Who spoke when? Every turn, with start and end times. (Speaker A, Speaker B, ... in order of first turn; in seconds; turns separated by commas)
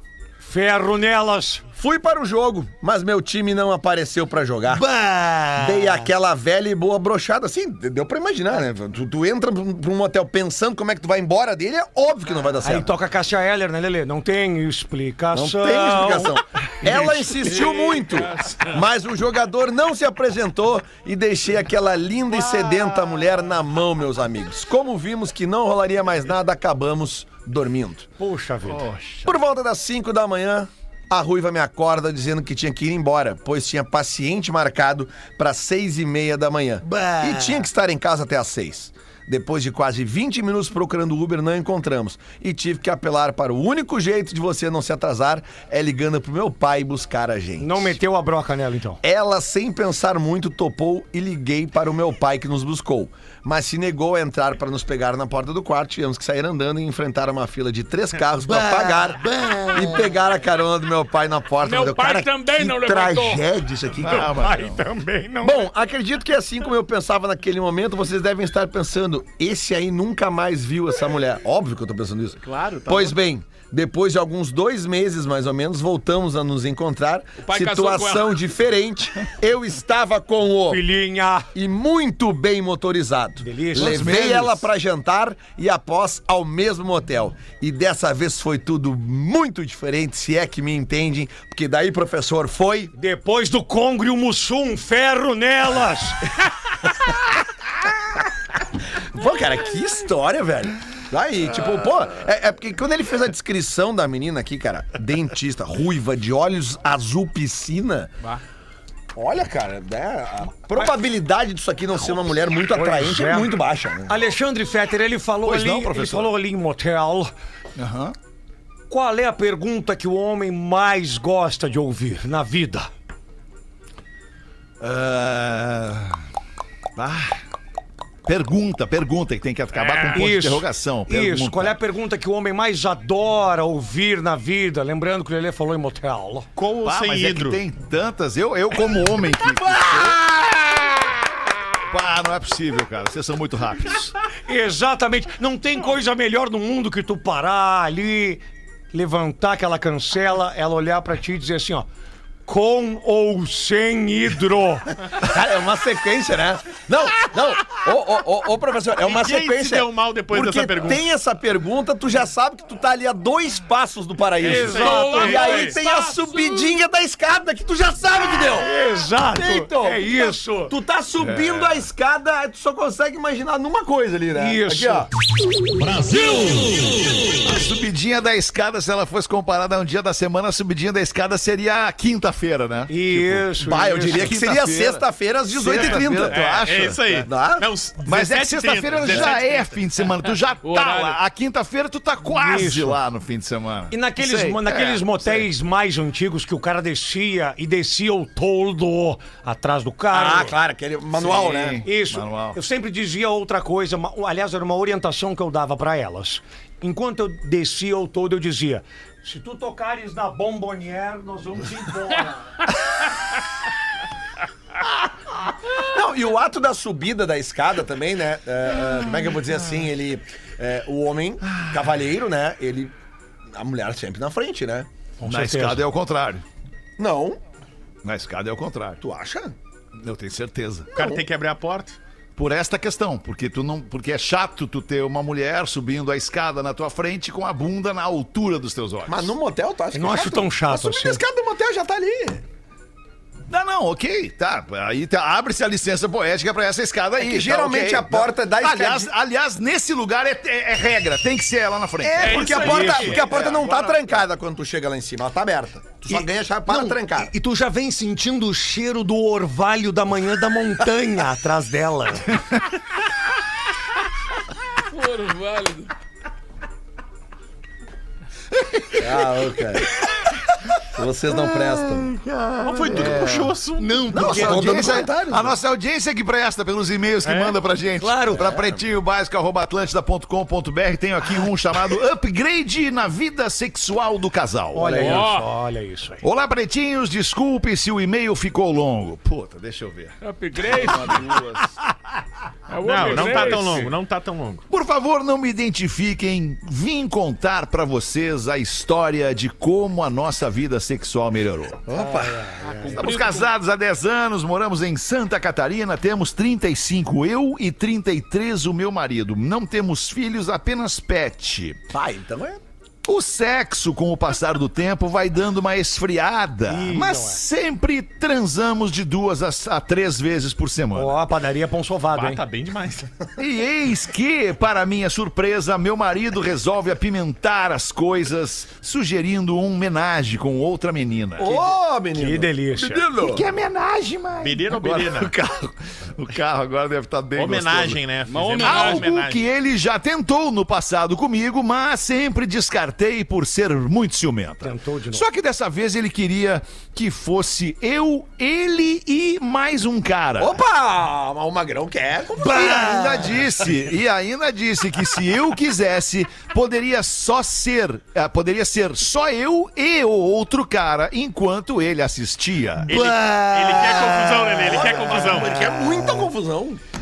Speaker A: 0.4-1.6, Speaker B: 1.8-4.8, Speaker A: 4.7-6.1, Speaker B: 5.6-12.9, Speaker A: 12.6-17.3, Speaker B: 15.3-28.1, Speaker C: 17.4-18.8, Speaker A: 22.6-23.2, Speaker A: 28.2-28.9, Speaker D: 28.7-29.4, Speaker B: 29.2-48.0, Speaker A: 36.8-37.7, Speaker A: 47.6-49.0, Speaker B: 49.0-59.2, Speaker A: 58.4-60.1, Speaker B: 59.7-64.3, Speaker C: 61.6-63.5, Speaker D: 64.0-64.8, Speaker A: 64.1-65.7, Speaker B: 65.4-80.8, Speaker E: 72.4-73.2, Speaker C: 77.4-78.3, Speaker A: 80.7-81.5, Speaker B: 81.5-92.9, Speaker A: 83.4-84.1, Speaker D: 83.8-84.7, Speaker A: 92.9-96.2, Speaker B: 99.1-108.1, Speaker B: 109.2-114.2, Speaker A: 112.7-113.6, Speaker A: 114.1-117.3, Speaker D: 115.4-116.3, Speaker D: 117.8-118.2, Speaker A: 118.9-122.9, Speaker D: 124.8-126.2, Speaker D: 127.0-127.4, Speaker D: 128.2-131.8, Speaker A: 130.2-136.5, Speaker E: 136.6-137.6, Speaker D: 136.8-140.2, Speaker D: 141.8-144.1, Speaker A: 144.5-151.9, Speaker A: 152.5-154.9, Speaker B: 155.2-168.7, Speaker E: 159.0-161.0, Speaker C: 164.4-166.6, Speaker A: 164.4-165.7, Speaker E: 164.5-165.7, Speaker A: 168.6-170.8, Speaker B: 169.3-175.1, Speaker D: 171.2-171.9, Speaker A: 174.3-175.1, Speaker D: 175.9-176.4, Speaker D: 177.3-187.3, Speaker A: 182.9-184.3, Speaker B: 183.6-186.4, Speaker E: 185.7-189.9, Speaker B: 187.2-187.7, Speaker D: 188.1-195.4, Speaker C: 190.6-191.2, Speaker A: 192.2-193.0, Speaker A: 193.9-200.6, Speaker B: 200.1-201.8, Speaker D: 201.2-202.6, Speaker A: 201.8-212.6, Speaker B: 215.8-222.9, Speaker B: 223.5-224.9, Speaker A: 225.2-225.9, Speaker D: 225.2-226.4, Speaker B: 227.0-227.4, Speaker D: 228.0-229.0, Speaker B: 229.0-229.6, Speaker D: 229.9-230.9, Speaker B: 230.9-231.2, Speaker E: 230.9-232.0, Speaker D: 232.4-239.3, Speaker B: 239.1-242.4, Speaker A: 239.9-241.2, Speaker D: 243.5-254.2, Speaker B: 247.2-249.1, Speaker B: 252.0-257.3, Speaker E: 252.2-253.4, Speaker A: 252.6-253.2, Speaker A: 256.1-262.4, Speaker C: 264.9-265.9, Speaker B: 269.0-269.9, Speaker B: 270.8-272.1, Speaker D: 272.0-273.6, Speaker E: 272.6-274.0, Speaker A: 273.8-275.0, Speaker D: 274.1-285.2, Speaker B: 274.1-275.6, Speaker E: 277.2-277.6, Speaker A: 278.0-278.5, Speaker B: 278.4-278.8, Speaker A: 284.7-286.2, Speaker C: 284.9-285.5, Speaker D: 286.2-291.8, Speaker C: 290.2-291.4, Speaker C: 292.7-293.9, Speaker E: 292.8-294.6, Speaker D: 293.1-293.5, Speaker D: 294.7-301.9, Speaker B: 301.9-302.9, Speaker A: 301.9-303.0, Speaker C: 302.7-303.5, Speaker D: 302.9-311.8, Speaker B: 311.9-312.6, Speaker D: 313.1-321.2, Speaker A: 316.7-317.4, Speaker A: 320.9-322.4, Speaker E: 322.1-323.1, Speaker D: 323.4-331.6, Speaker B: 331.4-333.5, Speaker A: 331.5-333.0, Speaker D: 333.2-338.0, Speaker E: 334.4-335.3, Speaker E: 337.4-339.4, Speaker C: 338.3-339.1, Speaker D: 338.6-350.6, Speaker A: 344.6-345.3, Speaker B: 350.4-353.7, Speaker D: 352.4-364.2, Speaker E: 362.9-365.6, Speaker B: 364.6-366.8